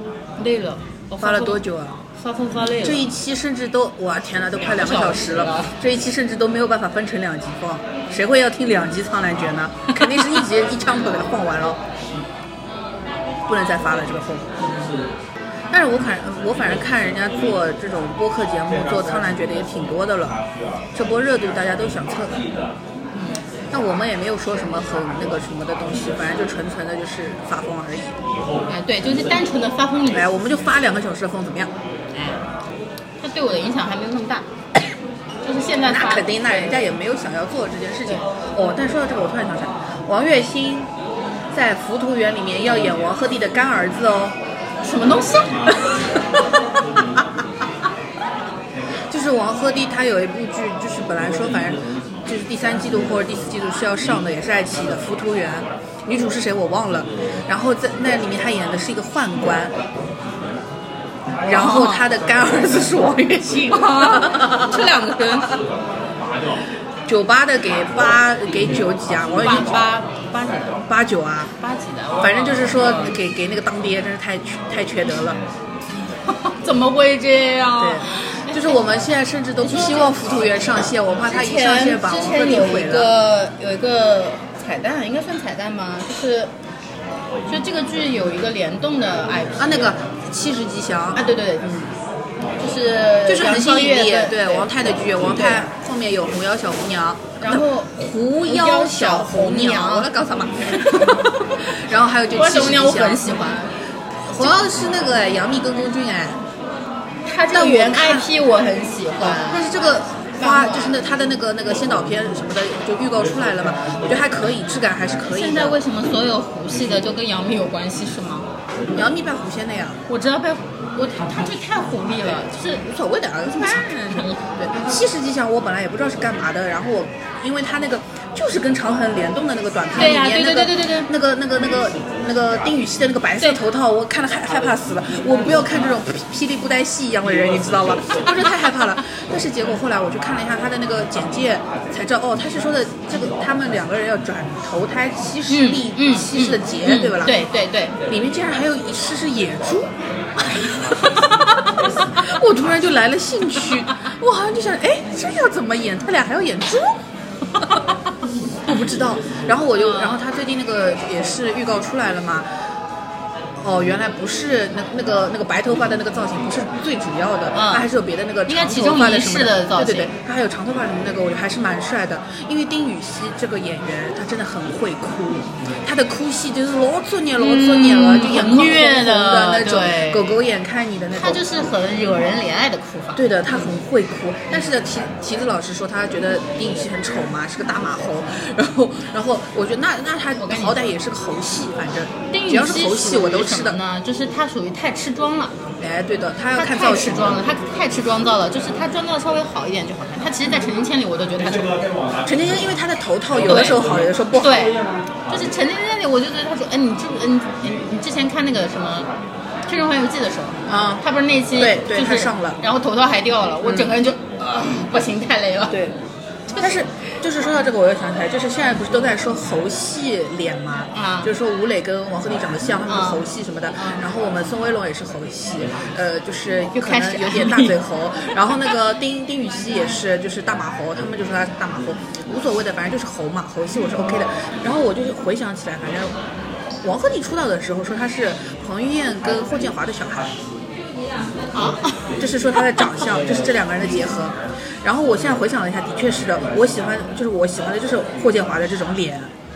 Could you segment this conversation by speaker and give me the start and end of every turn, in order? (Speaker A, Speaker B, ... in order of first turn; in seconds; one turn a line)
Speaker A: 0.4-1.6
Speaker B: 1.2-2.0
Speaker A: 2.2-3.1
Speaker B: 2.8-11.8
Speaker A: 4.6-5.8
Speaker B: 13.5-14.6
Speaker B: 15.7-20.4
Speaker B: 20.9-22.4
Speaker A: 23.1-23.4
Speaker B: 23.7-28.2
Speaker A: 28.7-30.3
Speaker B: 30.1-31.7
Speaker A: 32.1-32.4
Speaker A: 33.2-34.5
Speaker A: 35.4-36.9
Speaker B: 35.9-40.9
Speaker B: 41.5-44.4
Speaker A: 44.8-45.9
Speaker B: 49.1-59.7
Speaker A: 61.4-62.0
Speaker B: 61.4-65.5
Speaker A: 63.6-65.6
Speaker B: 67.1-69.8
Speaker A: 69.4-70.8
Speaker B: 70.8-71.5
Speaker A: 71.6-73.1
Speaker B: 72.2-75.4
Speaker A: 76.3-78.8
Speaker B: 77.8-83.1
Speaker A: 79.6-86.5
Speaker A: 87.5-90.0
Speaker B: 89.6-91.2
Speaker A: 91.1-91.9
Speaker A: 92.6-94.7
Speaker B: 93.2-103.3
Speaker A: 95.3-95.7
Speaker A: 97.4-97.9
Speaker A: 98.4-100.1
Speaker A: 100.7-101.3
Speaker A: 102.3-103.8
Speaker B: 104.2-106.4
Speaker A: 107.2-109.7
Speaker B: 107.5-108.3
Speaker B: 109.2-115.8
Speaker A: 110.4-111.0
Speaker A: 115.3-118.5
Speaker B: 118.9-120.0
Speaker A: 120.1-122.9
Speaker B: 122.8-147.4
Speaker A: 123.5-124.7
Speaker A: 129.9-131.1
Speaker A: 145.5-148.0
Speaker B: 148.1-151.2
Speaker B: 152.0-157.0
Speaker B: 158.7-162.5
Speaker A: 159.8-160.2
Speaker B: 163.6-181.4
Speaker A: 167.5-167.9
Speaker A: 168.5-170.1
Speaker A: 177.4-180.4
Speaker A: 181.1-183.7
Speaker B: 183.1-193.8
Speaker A: 190.4-190.9
Speaker A: 192.3-195.5
Speaker B: 195.8-197.4
Speaker A: 196.5-201.8
Speaker B: 202.2-204.7
Speaker A: 203.4-203.8
Speaker A: 204.3-209.1
Speaker A: 209.7-215.8
Speaker B: 210.7-212.6
Speaker B: 213.6-213.9
Speaker B: 215.7-215.9
Speaker A: 216.5-217.1
Speaker B: 216.6-236.1
Speaker A: 220.9-221.3
Speaker A: 222.9-223.2
Speaker A: 223.8-224.1
Speaker A: 226.7-227.8
Speaker B: 236.8-240.3
Speaker A: 241.5-242.1
Speaker B: 242.2-249.3